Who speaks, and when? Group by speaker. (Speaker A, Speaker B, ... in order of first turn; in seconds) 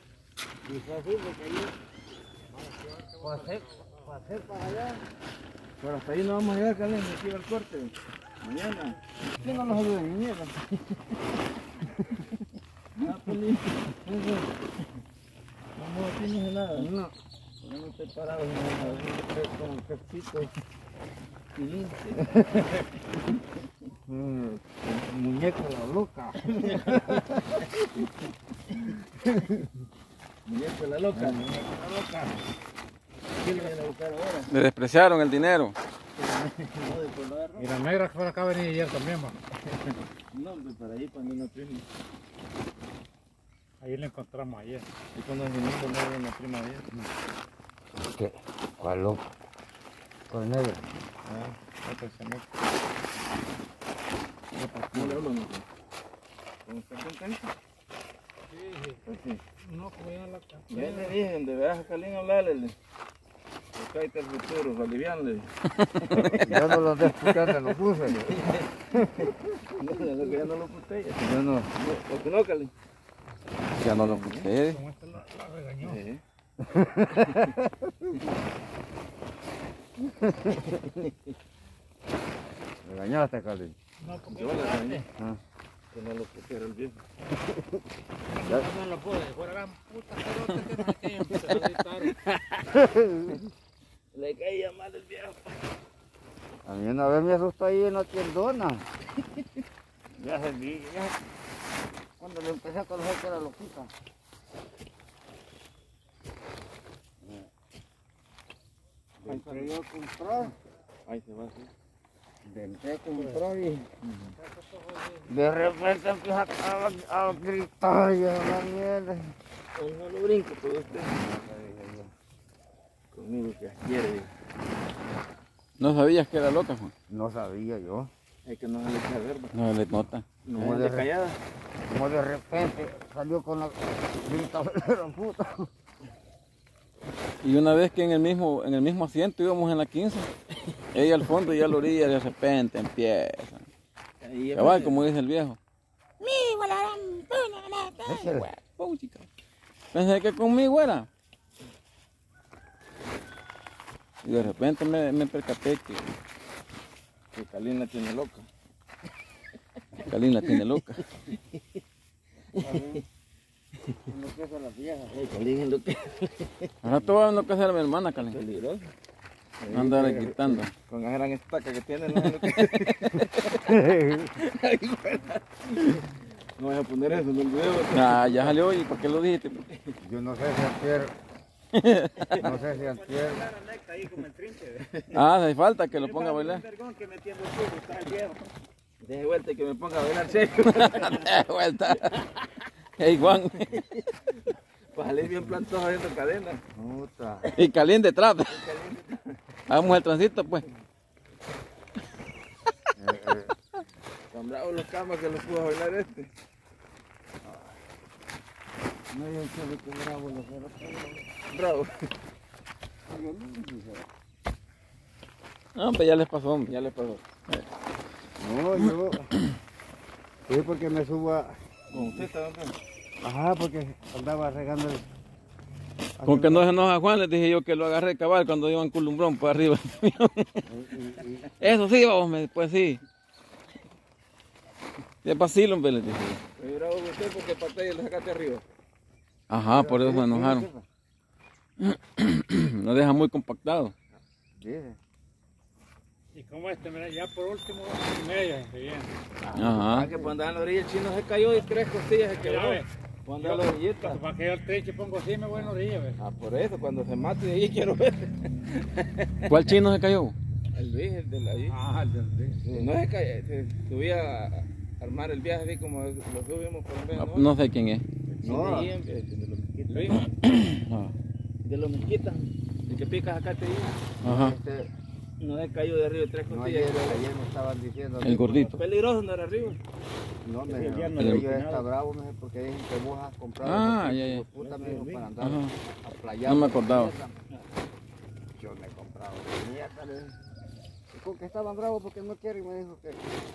Speaker A: 0.7-1.7, 3.2-5.0, 9.4-10.5, 16.7-17.1, 19.2-20.5, 22.3-22.6, 24.1-27.7, 29.1-29.6, 31.1-32.4, 48.0-49.2, 50.3-50.9, 54.9-55.2, 66.1-68.3, 71.2-71.7, 76.6-78.1, 80.1-80.6, 82.8-83.7, 87.4-87.8, 88.4-88.7, 92.3-93.4, 96.6-98.8, 102.2-103.9, 107.2-107.5, 109.2-110.5, 112.4-113.8, 115.2-119.3, 121.1-122.1, 127.1-128.1, 130.6-131.1, 131.9-135.7, 148.0-148.5, 162.5-163.0, 164.1-165.2, 173.6-174.3, 180.0-181.1, 182.3-183.4, 196.7-197.5, 202.9-203.5, 207.4-207.8, 209.1-211.3, 213.1-214.1, 218.4-219.3, 220.5-222.2, 223.2-225.0, 226.2-226.7, 230.7-231.5, 239.7-240.8, 244.5-245.0, 249.5-250.3, 262.5-262.9, 268.4-268.9, 274.2-274.9, 276.5-278.4, 280.4-287.4, 288.5-290.4, 291.1-293.2
Speaker B: 2.5-4.1, 37.6-39.4, 43.8-44.9, 58.5-59.0, 59.6-61.1, 74.6-76.0, 84.0-85.1, 88.3-92.1, 114.4-115.2, 182.6-184.7, 186.0-188.4, 246.3-249.1, 252.3-252.9, 253.4-256.2, 261.7-262.6
Speaker C: 5.8-10.7, 13.0-14.6, 15.8-16.9, 17.6-19.4, 21.6-22.4, 26.5-27.2, 30.4-31.4, 33.3-34.5, 36.2-37.7, 40.3-41.8, 45.1-46.9, 51.2-52.4, 54.6-55.7, 56.6-57.5, 59.0-59.4, 60.7-62.7, 63.7-67.5, 68.0-72.7, 73.8-74.5, 75.8-76.2, 80.6-81.3, 84.3-85.0, 85.9-87.0, 91.4-91.9, 94.1-95.6, 100.2-101.0, 109.2-109.8, 111.0-111.7, 114.0-114.4, 119.7-121.1, 123.1-124.3, 128.4-129.5, 130.4-131.4, 144.2-145.1, 157.3-158.5, 162.6-163.0, 165.1-166.7, 168.2-168.9, 169.6-173.8, 174.3-178.6, 179.7-179.9, 182.2-182.6, 184.8-185.2, 189.0-191.3, 194.9-196.6, 198.5-199.3, 204.3-206.3, 211.5-211.9, 216.7-217.2, 221.9-222.8, 236.6-238.6, 249.4-254.2, 256.2-259.7, 260.7-261.8, 262.7-267.5, 268.4-270.6, 271.6-274.0, 275.4-277.3, 278.4-279.8, 284.6-285.0
Speaker D: 34.5-35.8, 65.8-66.4, 73.7-74.8, 125.8-126.9, 129.5-130.2, 137.4-140.3, 140.9-143.7, 144.6-145.6, 146.2-149.3, 149.9-151.1, 154.2-156.1, 160.0-161.0, 166.8-168.4, 169.7-170.7, 177.9-179.7, 181.7-182.3, 185.1-186.6, 190.8-192.2, 193.0-193.9, 197.5-198.6, 199.7-200.6, 215.7-216.7, 226.2-230.7, 231.6-233.0, 235.2-236.4, 239.5-240.7, 241.8-243.9, 249.5-250.1, 259.5-260.3, 267.1-268.0, 270.4-271.1, 274.2-274.6, 278.2-278.8, 281.1-281.4, 283.6-284.4, 285.4-285.8, 286.4-287.1